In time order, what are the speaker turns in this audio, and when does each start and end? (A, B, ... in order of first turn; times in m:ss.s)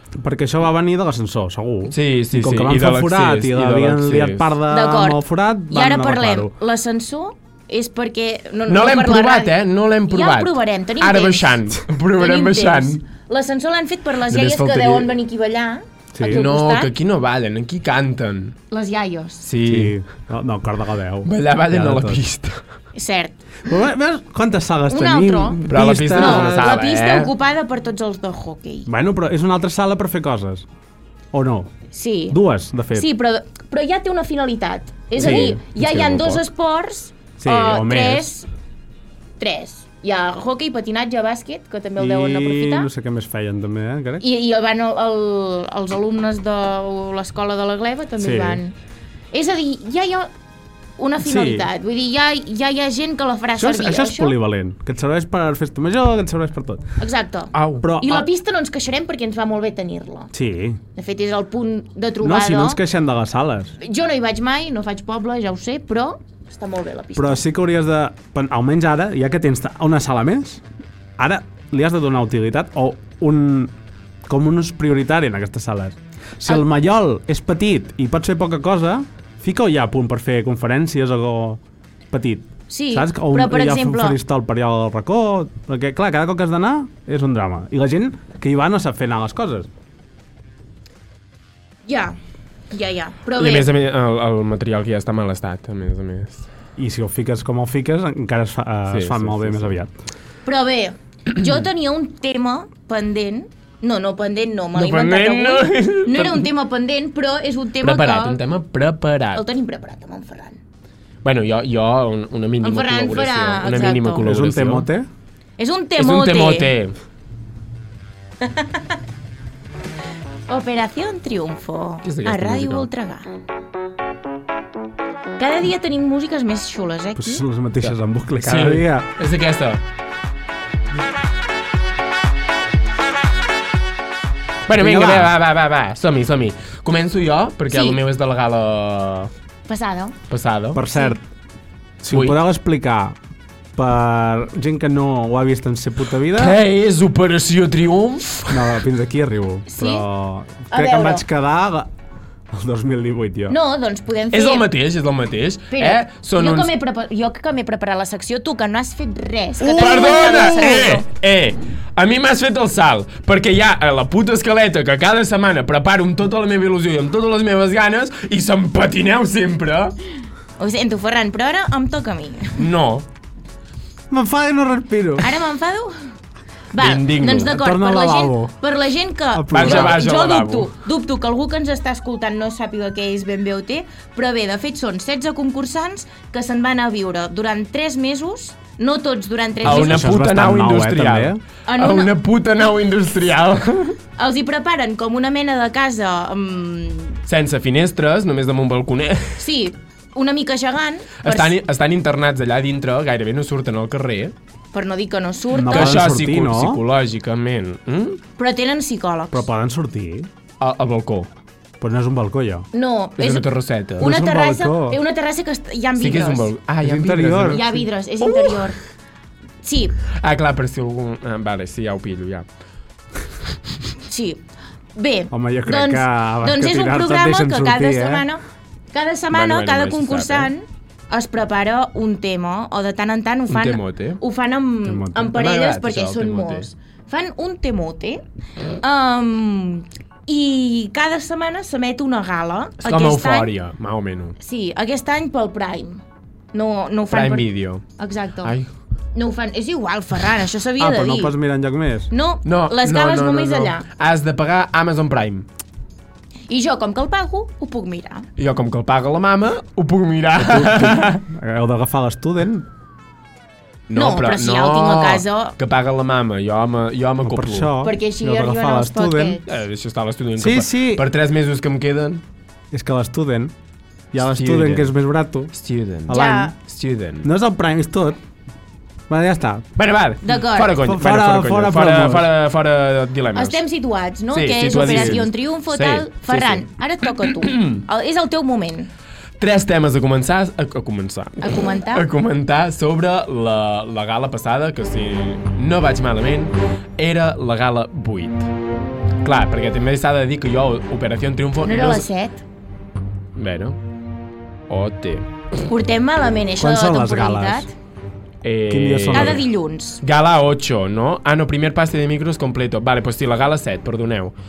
0:00.2-0:06.5 A
0:01.9-0:04.5 B
0:04.7-0:09.5 C
0:08.7-0:13.0 B
0:10.1-0:16.9 C
0:14.3-0:15.1 B
0:16.1-0:16.4 A
0:16.2-0:18.6 B
0:18.7-0:19.4 C
0:19.4-0:20.0 B
0:19.6-0:22.2 A
0:21.2-0:22.6 B
0:22.9-0:23.4 C
0:23.6-0:26.7 A
0:24.9-0:25.6 C
0:25.7-0:27.3 B
0:26.1-0:28.9 C
0:28.8-0:30.6 A
0:31.3-0:31.7 A
0:31.9-0:32.4 C
0:32.3-0:33.1 A
0:32.9-0:38.5 C
0:35.1-0:36.4 B
0:35.2-0:35.6 A
0:37.4-0:38.3 A
0:39.4-0:42.9 C
0:42.0-0:44.2 A
0:44.2-0:48.7 C
0:48.2-0:48.6 A
0:49.3-0:50.3 C
0:51.0-0:54.3 C
0:51.2-0:51.7 A
0:53.6-0:56.8 A
0:57.0-1:00.3 C
0:57.5-0:57.9 B
0:57.8-0:58.3 A
1:00.3-1:00.8 A
1:01.0-1:02.8 C
1:02.2-1:03.8 A
1:03.8-1:07.4 C
1:07.2-1:10.6 A
1:11.2-1:13.7 A
1:14.3-1:21.6 A
1:22.1-1:29.7 A
1:22.7-1:24.2 C
1:31.8-1:32.2 C
1:32.7-1:33.7 C
1:33.4-1:36.5 B
1:36.8-1:39.9 A
1:38.9-1:39.8 B
1:40.4-1:48.4 C
1:44.7-1:46.5 B
1:47.8-1:49.4 B
1:49.3-1:50.6 C
1:51.2-1:54.9 B
1:52.6-1:54.2 C
1:54.2-1:55.1 A
1:55.6-1:56.7 C
1:56.0-1:56.9 B
1:58.4-1:58.8 C
2:00.5-2:03.3 C
2:02.0-2:02.9 B
2:05.4-2:07.4 C
2:07.2-2:09.1 A
2:07.8-2:09.8 B
2:14.7-2:19.3 B
2:14.8-2:15.3 A
2:17.7-2:18.0 C
2:19.7-2:20.2 C
2:20.3-2:20.8 B
2:20.7-2:21.2 A
2:22.0-2:23.2 A
2:22.1-2:22.4 B
2:23.8-2:26.6 A
2:26.4-2:28.8 B
2:28.5-2:31.9 A
2:29.7-2:30.0 C
2:30.7-2:31.2 C
2:32.5-2:33.6 A
2:33.5-2:34.6 C
2:34.3-2:36.7 B
2:35.7-2:41.0 C
2:39.6-2:40.9 A
2:39.8-2:50.0 B
2:50.6-2:52.6 C
2:52.6-2:53.0 B
2:54.1-2:55.3 A
2:55.2-2:55.9 C
2:56.7-3:10.0 C
2:56.8-2:57.5 B
2:57.4-2:58.5 A
2:59.3-3:00.0 A
2:59.5-3:00.7 B
3:09.6-3:11.4 A
3:09.6-3:14.0 B
3:11.7-3:12.1 C
3:14.2-3:17.2 C
3:17.2-3:19.4 B
3:19.4-3:21.6 C
3:21.2-3:24.3 B
3:24.7-3:26.0 C
3:25.5-3:26.8 A
3:25.7-3:28.2 B
3:28.4-3:29.4 C
3:29.3-3:30.3 A
3:30.6-3:31.3 B
3:31.8-3:32.7 A
3:32.7-3:33.4 C
3:33.2-3:34.1 B
3:34.0-3:36.5 C
3:34.0-3:35.0 A
3:36.0-3:37.7 B
3:36.8-3:37.8 A
3:37.5-3:38.8 C
3:38.3-3:38.6 B
3:39.6-3:39.9 C
3:40.2-3:42.4 B
3:44.1-3:44.4 C
3:44.9-3:48.4 C
3:45.3-3:48.3 A
3:48.9-3:58.2 C
3:49.3-3:50.5 B
3:53.5-3:54.2 B
3:54.8-3:55.4 A
3:55.3-3:56.7 B
3:58.8-4:03.5 C
4:02.8-4:04.4 B
4:04.4-4:06.0 C
4:06.5-4:08.5 C
4:07.1-4:07.8 B
4:08.4-4:08.7 B
4:09.1-4:11.3 C
4:10.8-4:12.1 A
4:12.1-4:13.8 C
4:12.4-4:15.5 B
4:16.5-4:18.3 C
4:18.4-4:21.2 B
4:20.4-4:22.6 A
4:23.9-4:27.7 B
4:23.9-4:25.5 C
4:27.2-4:29.4 A
4:27.8-4:29.5 C
4:29.5-4:32.2 B
4:30.4-4:31.0 A
4:32.7-4:33.5 A
4:34.1-4:35.5 A
4:34.2-4:34.9 B
4:35.5-4:37.3 B
4:36.1-4:36.5 A
4:36.1-4:36.5 C
4:37.2-4:38.2 A
4:39.1-4:39.6 A
4:39.8-4:43.6 B
4:40.2-4:40.7 C
4:40.8-4:42.3 A
4:43.3-4:48.9 C
4:44.3-4:47.8 B
4:44.7-4:45.2 A
4:49.4-4:58.5 B
4:51.4-4:52.0 C
4:59.2-5:02.0 B
5:01.6-5:02.4 C
5:03.4-5:03.8 B
5:04.7-5:05.3 B
5:05.7-5:07.7 C
5:06.6-5:07.7 A
5:08.4-5:09.4 B
5:08.7-5:09.4 A
5:09.1-5:10.0 C
5:10.0-5:14.3 B